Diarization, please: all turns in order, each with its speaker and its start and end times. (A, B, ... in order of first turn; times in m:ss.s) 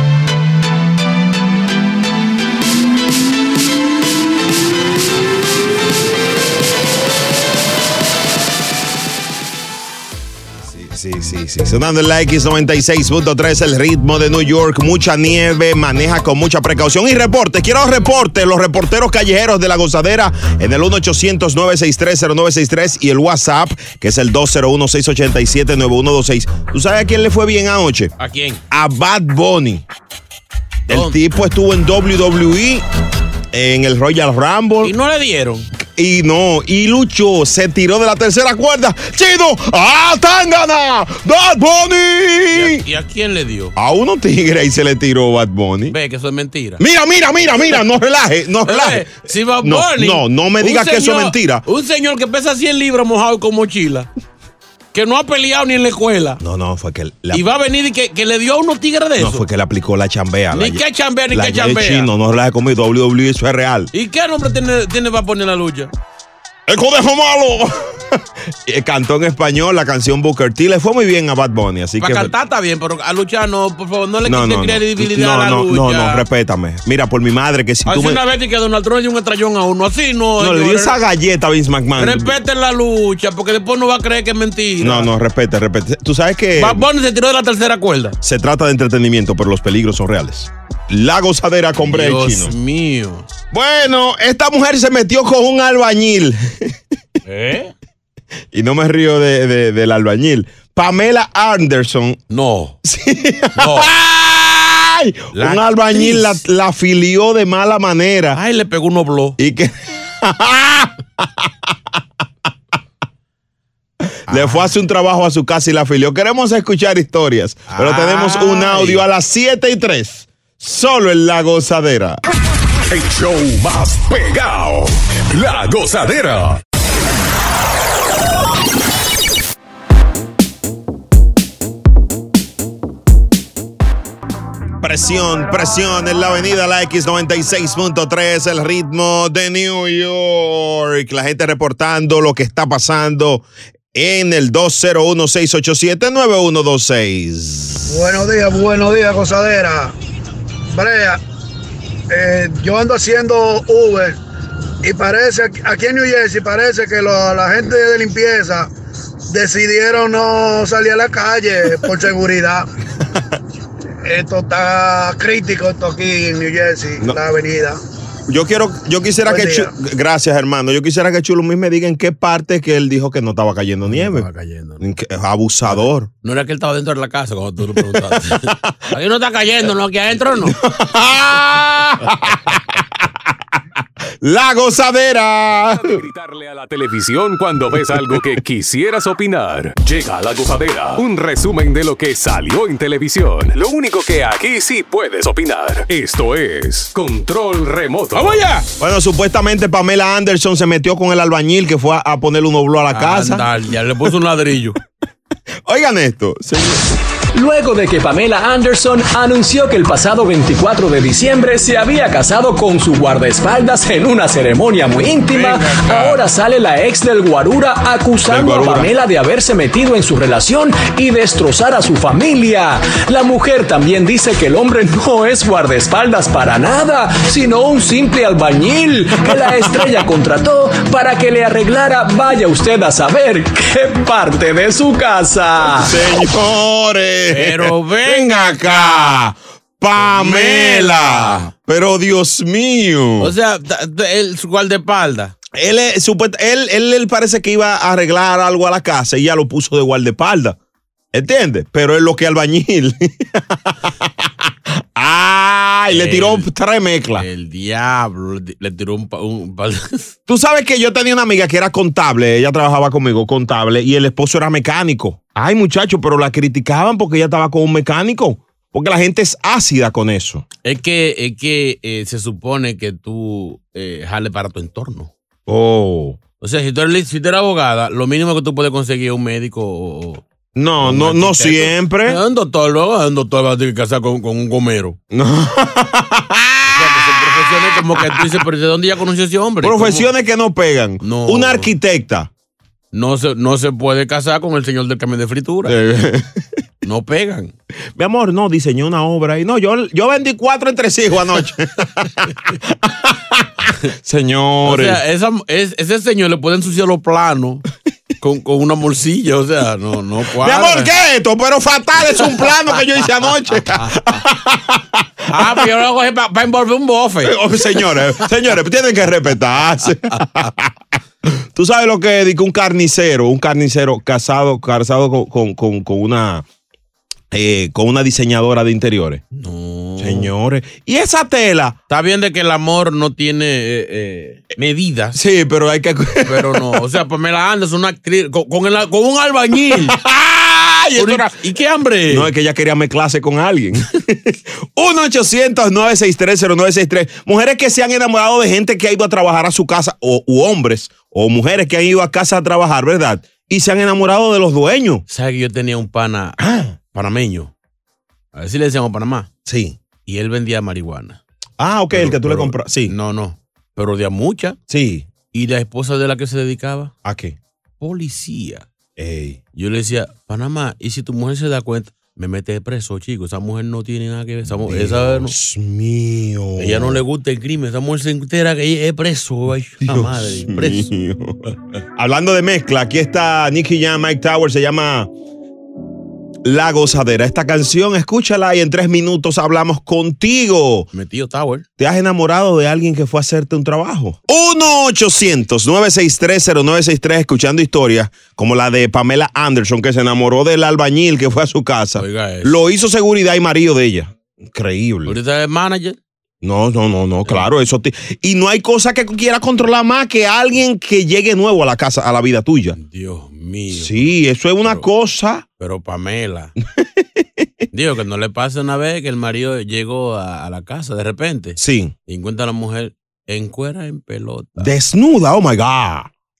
0:10.6-0:28.1 A
0:28.2-0:28.6 B
0:28.7-0:29.8 A
0:30.9-0:31.3 B
0:30.9-0:32.8 A
0:33.5-0:34.9 A
0:34.8-0:35.7 B
0:35.8-0:42.8 A
0:42.5-0:43.7 B
0:43.8-0:46.0 A
0:45.9-0:46.8 B
0:46.8-0:51.6 A
0:48.6-0:54.1 B
0:54.9-0:56.4 B
0:56.4-0:57.4 A
0:57.3-0:59.4 B
0:59.2-1:03.9 A
1:00.5-1:02.1 B
1:03.9-1:05.9 B
1:06.7-1:12.3 A
1:12.0-1:16.2 B
1:14.2-1:18.2 A
1:17.8-1:21.0 B
1:20.4-1:22.3 A
1:22.0-1:25.1 B
1:24.8-1:26.8 A
1:26.6-1:28.2 B
1:28.2-1:32.5 A
1:31.8-1:33.3 B
1:33.5-1:36.7 A
1:37.3-1:37.7 B
1:38.5-1:42.2 A
1:42.3-1:42.8 B
1:42.8-1:48.4 A
1:43.6-1:43.9 B
1:45.3-1:46.4 B
1:48.3-1:49.4 B
1:49.4-1:51.7 A
1:54.3-2:02.2 A
1:54.3-1:54.8 B
1:57.7-1:59.0 B
2:02.9-2:06.6 C
2:14.8-2:28.0 A
2:27.9-2:29.9 D
2:30.7-2:31.2 D
2:32.1-2:34.2 D
2:34.8-2:38.7 D
2:39.3-2:42.6 D
2:44.0-2:47.8 D
2:48.3-2:54.3 A
2:49.2-2:49.7 D
2:53.8-2:54.8 B
2:54.8-2:56.1 A
2:55.6-3:00.6 B
2:57.8-2:58.8 A
3:00.4-3:03.1 A
3:04.2-3:06.0 A
3:05.6-3:18.4 C
3:07.9-3:08.2 A
3:18.1-3:18.6 B
3:18.8-3:23.4 A
3:22.9-3:24.8 B
3:25.6-3:26.8 A
3:27.3-3:56.0 E
3:35.3-3:36.2 B
3:38.3-3:38.9 A
3:55.8-4:03.3 A
3:57.3-3:59.2 B
4:00.0-4:01.5 B
4:03.2-4:05.3 B
4:05.5-4:10.6 A
4:11.1-4:17.3 A
4:15.9-4:16.5 B
4:17.2-4:20.1 B
4:20.3-4:30.4 A
4:30.6-4:35.1 B
4:35.5-4:36.2 A
4:36.4-4:40.2 B
4:40.5-4:42.2 A
4:40.8-4:45.0 B
4:45.1-4:48.4 A
4:46.7-4:50.1 B
4:49.6-4:52.3 A
4:51.0-4:51.7 B
4:52.9-4:55.8 B
4:55.6-4:56.4 A
4:56.8-4:57.5 B
4:58.0-5:05.0 A
5:04.6-5:07.6 B
5:08.2-5:10.9 B
5:10.4-5:15.6 A
5:15.3-5:18.3 B
5:17.2-5:20.7 A
5:21.3-5:26.4 A
5:27.3-5:29.2 A
5:29.3-5:30.3 B
5:30.0-5:31.8 A
5:31.9-5:35.2 B
5:35.1-5:36.8 A
5:36.2-5:40.0 B
5:39.8-5:41.3 A
5:41.0-5:42.3 B
5:42.1-5:55.0 A
5:55.1-5:56.4 B
5:56.4-5:56.8 A
5:56.9-5:57.5 B
5:58.3-5:59.3 B
5:59.4-5:59.8 A
6:00.0-6:01.2 B
6:01.6-6:02.9 A
6:01.9-6:04.6 B
6:04.7-6:05.1 A
6:05.3-6:06.9 B
6:07.0-6:07.4 A
6:07.8-6:08.6 B
6:09.0-6:09.4 A
6:09.5-6:15.3 B
6:14.4-6:17.0 A
6:16.6-6:20.9 B
6:19.8-6:21.4 A
6:22.0-6:25.1 A
6:26.4-6:30.9 A
6:30.9-6:31.7 B
6:31.8-6:45.2 A
6:42.0-6:42.6 B
6:45.0-6:46.0 B
6:46.4-6:52.8 A
6:52.7-6:54.1 B
6:53.7-6:55.4 A
6:55.6-6:56.5 B
6:56.8-6:57.4 A
6:57.7-7:04.7 B
7:01.6-7:01.9 A
7:04.6-7:06.1 A